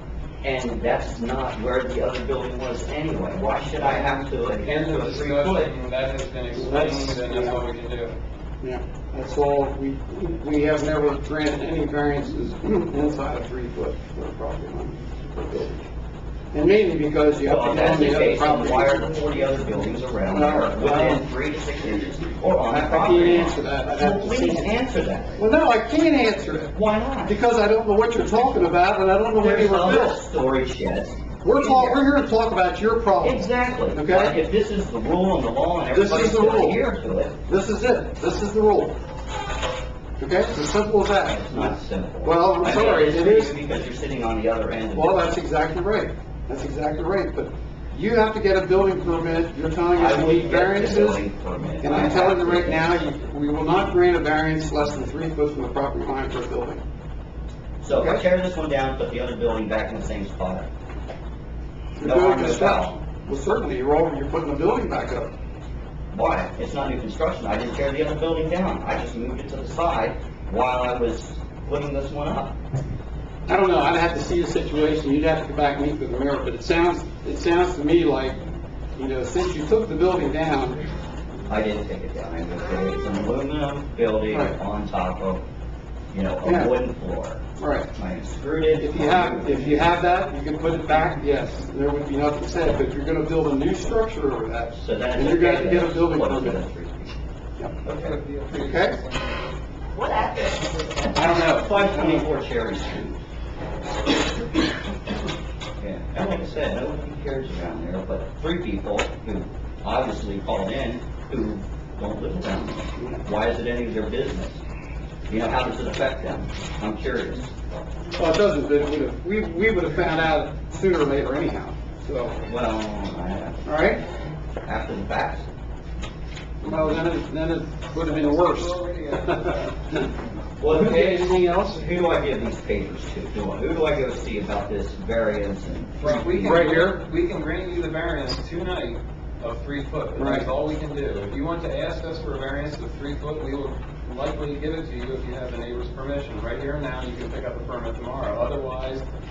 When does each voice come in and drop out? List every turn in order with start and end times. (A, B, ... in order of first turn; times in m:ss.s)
0:00.4-0:05.7 A
0:03.8-0:08.2 B
0:06.5-0:07.6 C
0:08.6-0:15.8 C
0:16.5-0:19.2 C
0:17.4-0:25.4 A
0:20.3-0:21.3 C
0:22.7-0:24.8 C
0:25.4-0:26.7 C
0:26.7-0:27.3 A
0:27.2-0:30.2 C
0:29.4-0:32.1 A
0:31.4-0:34.4 C
0:33.2-0:37.4 A
0:35.9-0:36.8 C
0:37.5-0:39.0 C
0:40.2-0:43.5 C
0:41.3-0:45.3 A
0:45.0-0:51.2 C
0:50.0-0:52.9 A
0:51.8-0:56.8 C
0:57.8-1:00.7 A
0:57.9-0:58.2 C
1:02.0-1:05.3 C
1:02.0-1:02.9 A
1:06.1-1:12.6 A
1:13.5-1:18.4 C
1:19.0-1:20.8 C
1:21.5-1:25.4 A
1:24.3-1:24.6 C
1:26.1-1:29.9 A
1:26.4-1:26.7 C
1:27.6-1:27.9 C
1:28.7-1:36.6 C
1:34.8-1:37.1 A
1:37.8-1:38.2 A
1:37.9-1:39.5 B
1:38.5-1:39.0 C
1:39.9-1:43.2 A
1:41.1-1:42.3 C
1:45.8-1:54.6 A
1:55.3-1:57.5 A
1:58.2-2:02.4 C
2:02.4-2:03.7 A
2:03.6-2:04.0 C
2:04.6-2:05.5 A
2:06.6-2:08.7 C
2:06.6-2:07.0 A
2:07.8-2:09.9 B
2:09.2-2:10.1 C
2:10.6-2:16.6 A
2:10.7-2:11.9 C
2:16.0-2:29.0 B
2:16.4-2:17.0 C
2:20.2-2:20.5 C